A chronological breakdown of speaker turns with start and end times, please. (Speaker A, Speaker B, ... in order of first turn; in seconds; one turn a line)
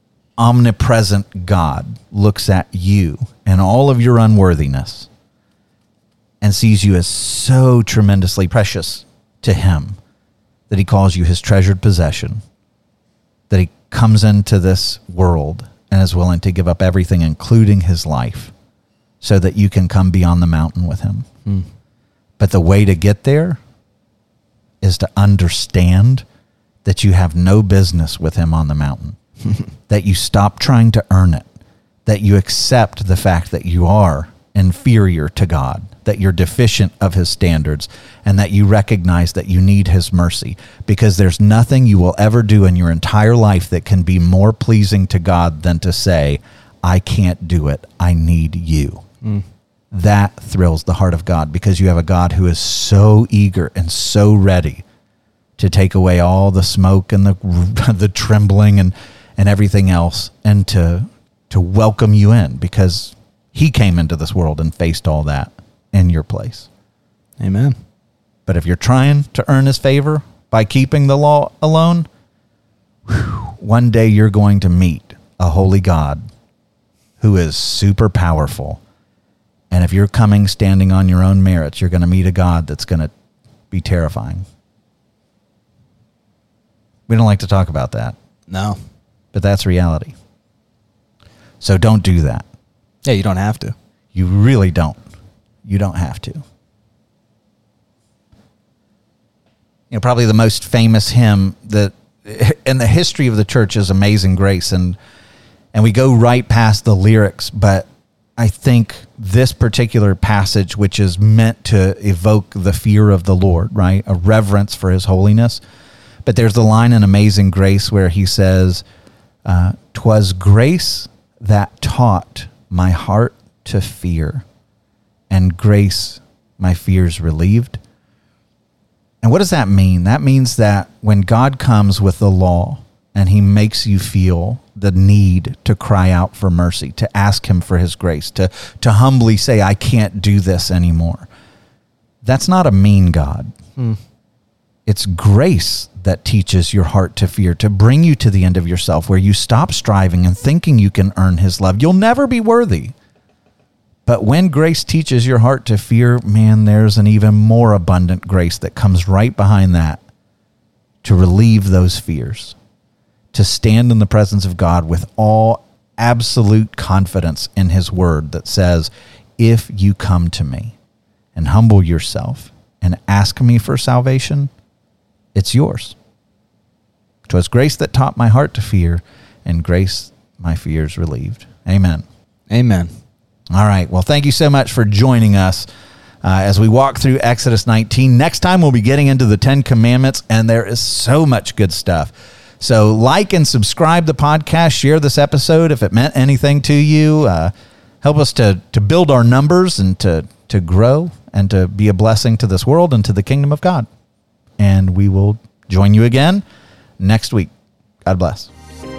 Speaker A: 0.4-5.1
Speaker A: 6.4-10.0
Speaker A: 10.7-12.4
Speaker A: 13.5-18.5
Speaker A: 19.2-21.3
Speaker A: 22.4-23.6
Speaker A: 24.8-26.2
Speaker A: 26.8-29.2
Speaker A: 29.9-31.4
Speaker A: 32.0-49.0
Speaker A: 49.9-54.8
Speaker A: 55.6-66.7
Speaker B: 67.4-67.8
Speaker A: 68.5-72.1
Speaker A: 73.1-76.2
Speaker A: 77.2-78.8
Speaker A: 79.7-83.1
Speaker A: 83.7-84.5
Speaker A: 87.1-88.1
Speaker B: 88.5-88.8
Speaker A: 89.3-90.2
Speaker A: 91.6-92.4
Speaker B: 93.0-93.7
Speaker A: 94.1-95.0
Speaker A: 95.6-96.4
Speaker A: 99.9-105.0
Speaker A: 105.7-115.6
Speaker A: 116.2-118.8
Speaker A: 119.4-124.4
Speaker A: 125.3-127.8
Speaker A: 129.2-141.3
Speaker A: 142.2-143.5
Speaker A: 144.8-152.9
Speaker A: 154.1-160.0
Speaker A: 161.0-162.6
Speaker A: 163.3-170.8
Speaker A: 171.3-174.5
Speaker A: 175.3-175.9
Speaker A: 177.3-182.0
Speaker B: 182.5-182.9
Speaker A: 183.5-185.7
Speaker A: 186.2-203.9
Speaker A: 204.6-206.4
Speaker A: 207.0-207.5
Speaker A: 208.0-208.5